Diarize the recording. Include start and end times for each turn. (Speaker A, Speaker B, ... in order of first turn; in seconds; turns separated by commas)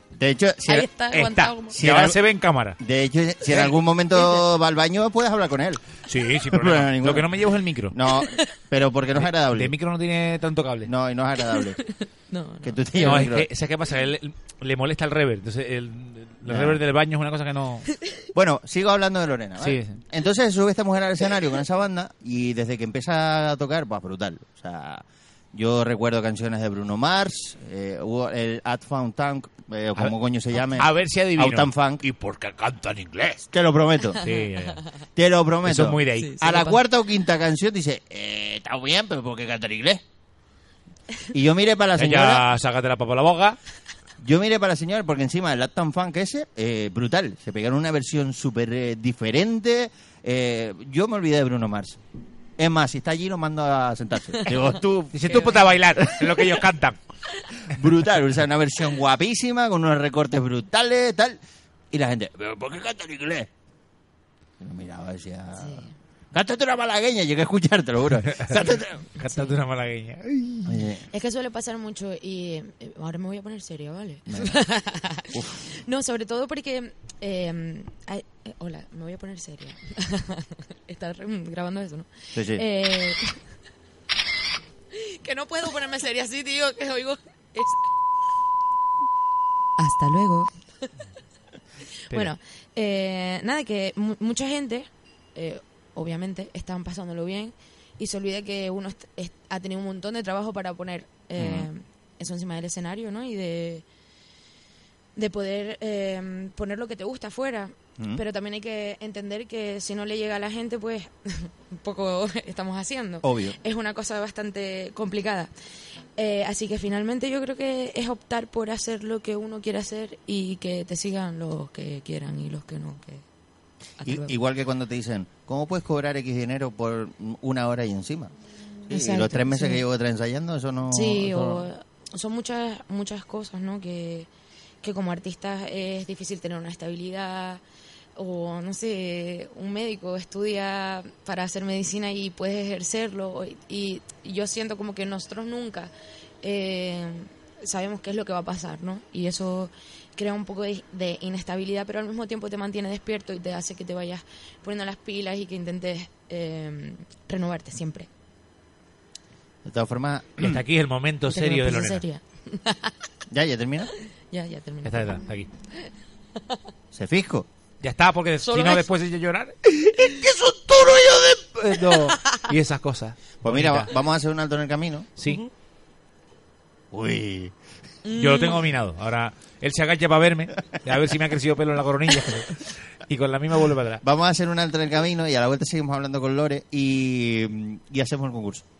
Speaker A: 0.2-0.9, Speaker B: 0.7-1.8, Speaker C: 1.0-2.8, Speaker A: 1.7-2.2, Speaker A: 2.8-5.8, Speaker C: 3.5-3.7, Speaker C: 6.1-8.0, Speaker A: 6.4-7.3, Speaker A: 7.9-9.8, Speaker B: 8.1-8.5, Speaker C: 9.2-10.9, Speaker A: 10.8-11.8, Speaker B: 11.5-12.8, Speaker A: 12.6-13.5, Speaker C: 12.9-17.9, Speaker A: 16.4-16.8, Speaker A: 18.3-32.0, Speaker C: 19.6-20.0, Speaker C: 29.9-33.5, Speaker A: 33.5-34.2, Speaker C: 34.2-34.9, Speaker A: 35.1-40.0, Speaker C: 35.6-36.4, Speaker B: 36.2-36.8, Speaker A: 41.3-42.4, Speaker C: 42.0-43.6, Speaker A: 44.2-52.0, Speaker A: 52.6-56.4, Speaker C: 55.1-57.0, Speaker B: 55.3-55.6, Speaker A: 57.7-61.4, Speaker A: 61.9-63.5, Speaker A: 64.6-69.0, Speaker B: 65.6-65.8, Speaker C: 68.3-70.9, Speaker B: 69.2-69.5, Speaker A: 70.7-71.0, Speaker B: 71.1-83.4, Speaker A: 74.3-74.6, Speaker A: 75.3-75.6, Speaker A: 82.3-82.6, Speaker B: 84.9-87.8, Speaker B: 89.8-90.9, Speaker B: 92.1-103.8, Speaker A: 101.4-101.7, Speaker B: 105.2-115.5, Speaker A: 113.2-113.5, Speaker B: 116.2-123.2, Speaker B: 124.0-124.3, Speaker A: 124.0-128.3, Speaker B: 128.9-129.8, Speaker A: 128.9-131.7, Speaker B: 130.9-134.3, Speaker B: 134.8-137.6, Speaker B: 138.2-158.1, Speaker A: 159.6-160.6, Speaker C: 160.4-162.0, Speaker B: 161.3-162.9, Speaker A: 163.3-163.9, Speaker B: 164.3-165.2, Speaker C: 164.8-165.5, Speaker A: 166.9-167.4, Speaker C: 167.8-169.7, Speaker B: 168.4-168.9, Speaker A: 169.9-171.5, Speaker C: 171.4-173.9, Speaker A: 173.4-175.1, Speaker C: 175.2-175.4, Speaker A: 176.9-177.5, Speaker B: 178.0-178.7, Speaker C: 178.1-184.0, Speaker A: 184.0-188.6